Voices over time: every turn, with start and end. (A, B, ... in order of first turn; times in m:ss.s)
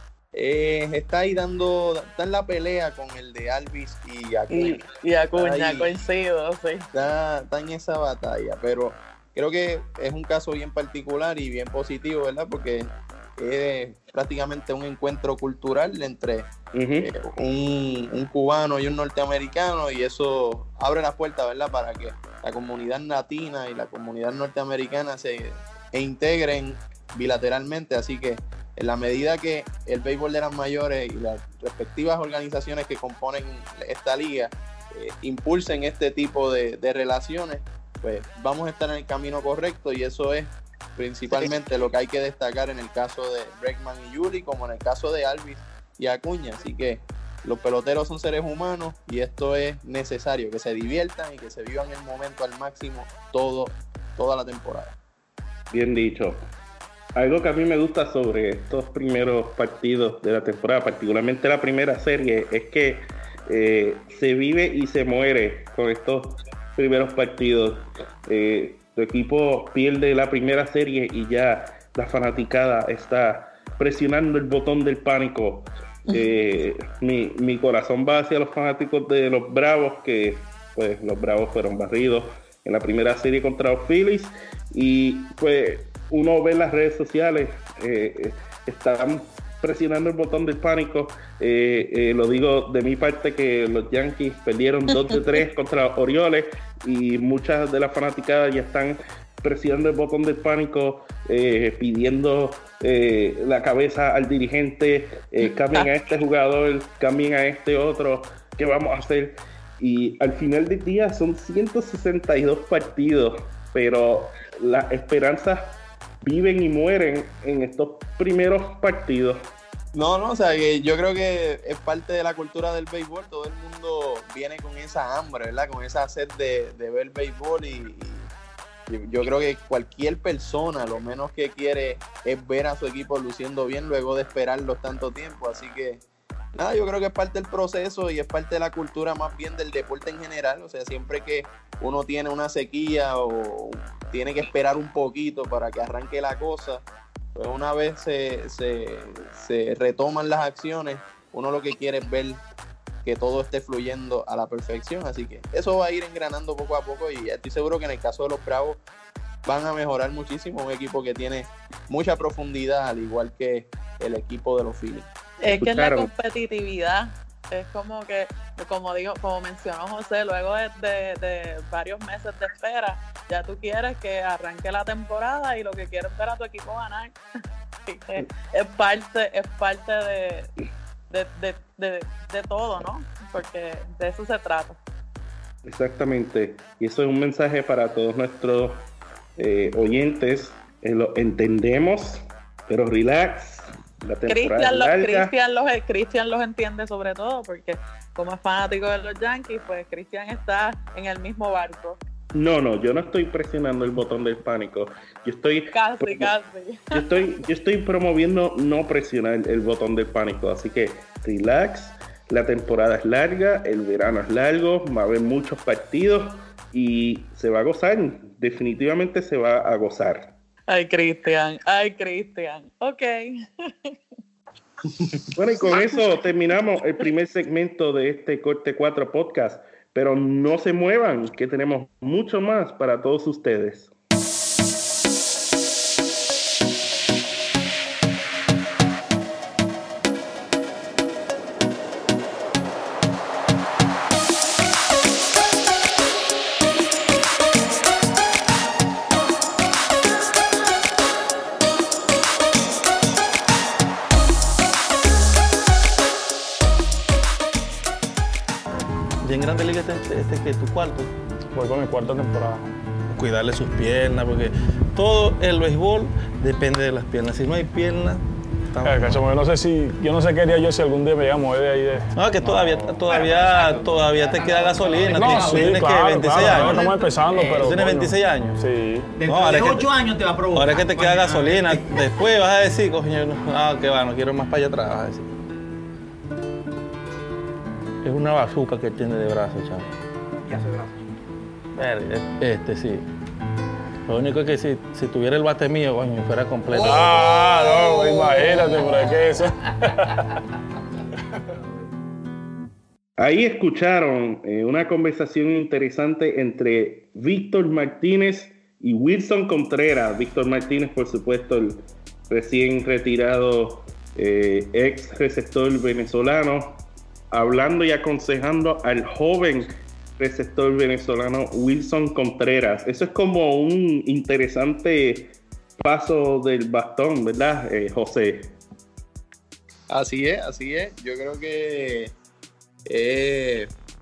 0:00.3-0:04.8 A
0:04.5-0:06.9 B
0:05.4-0:05.9 A
0:06.9-0:16.5 A
0:16.7-0:17.1 C
0:17.0-0:55.0 A
0:55.7-0:56.5 C
0:57.2-1:59.5 C
1:59.9-2:08.3 A
2:08.9-2:16.0 A
2:16.6-2:26.8 A
2:27.4-2:32.4 A
2:33.0-2:38.8 A
2:39.4-2:45.1 A
2:45.4-2:57.2 B
2:45.6-2:46.1 C
2:57.9-3:00.5 B
3:01.1-3:04.8 B
3:05.6-3:08.9 C
3:09.4-3:15.3 C
3:14.3-3:22.0 B
3:22.3-3:26.3 C
3:25.7-3:27.2 B
3:26.9-3:40.3 C
3:40.7-3:43.9 B
3:45.3-3:53.9 C
3:45.7-3:46.0 B
4:19.2-4:21.1 D
4:21.5-4:22.7 E
4:23.1-4:29.3 D
4:28.8-4:33.0 E
4:32.2-4:38.6 D
4:33.1-4:37.7 F
4:35.0-4:39.1 E
4:39.1-4:42.1 F
4:39.2-4:40.0 D
4:40.5-4:45.3 D
4:48.0-4:49.9 D
4:50.5-4:51.1 F
4:51.8-4:53.1 D
4:54.1-4:57.1 D
4:56.7-4:58.4 F
4:56.8-5:00.0 E
5:03.2-5:28.6 C
5:29.9-5:32.1 A
5:32.9-5:33.7 A